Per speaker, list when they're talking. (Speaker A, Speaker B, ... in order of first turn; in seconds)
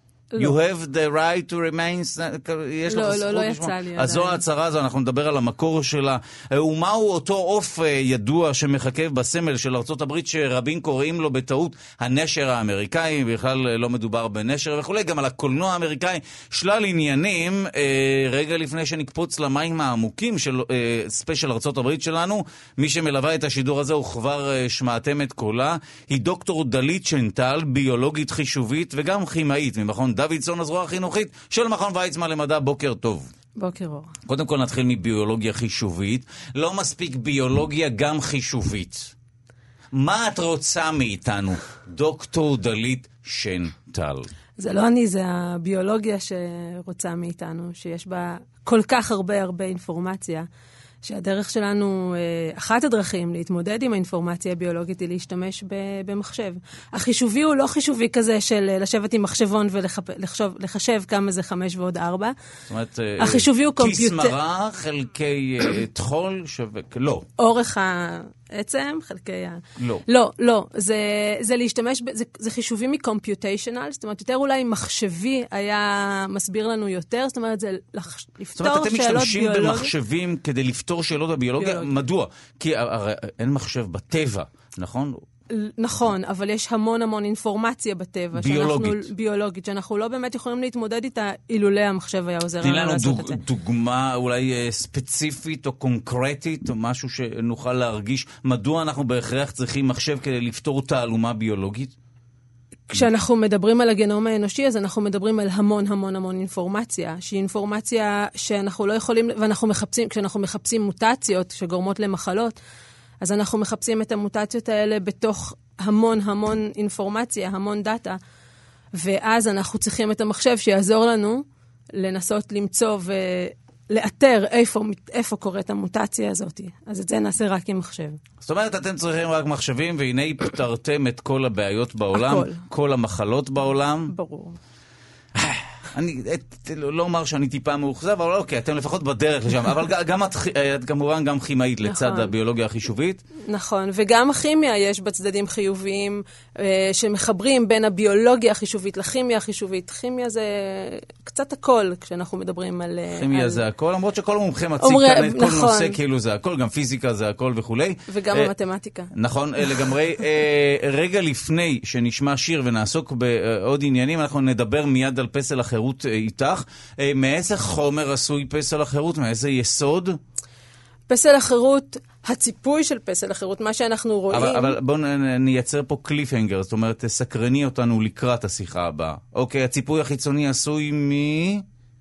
Speaker A: 0.4-33.3, 34.3-39.1, 40.0-44.3, 62.7-67.3, 69.8-70.0, 78.6-85.2, 88.4-89.1, 92.6-101.9, 128.4-134.1, 135.4-143.2, 153.2-158.5, 159.1-170.2, 174.3-181.6
Speaker B: 2.9-4.4, 33.6-34.1, 44.6-50.5, 51.0-62.3, 63.2-64.3, 67.4-79.9, 81.6-81.9, 85.5-93.4, 102.9-112.6, 113.2-118.2, 119.0-121.4, 122.0-128.2, 132.1-132.6, 134.1-134.6, 141.8-142.3, 143.5-153.6, 154.8-156.0, 158.1-159.1, 171.1-174.8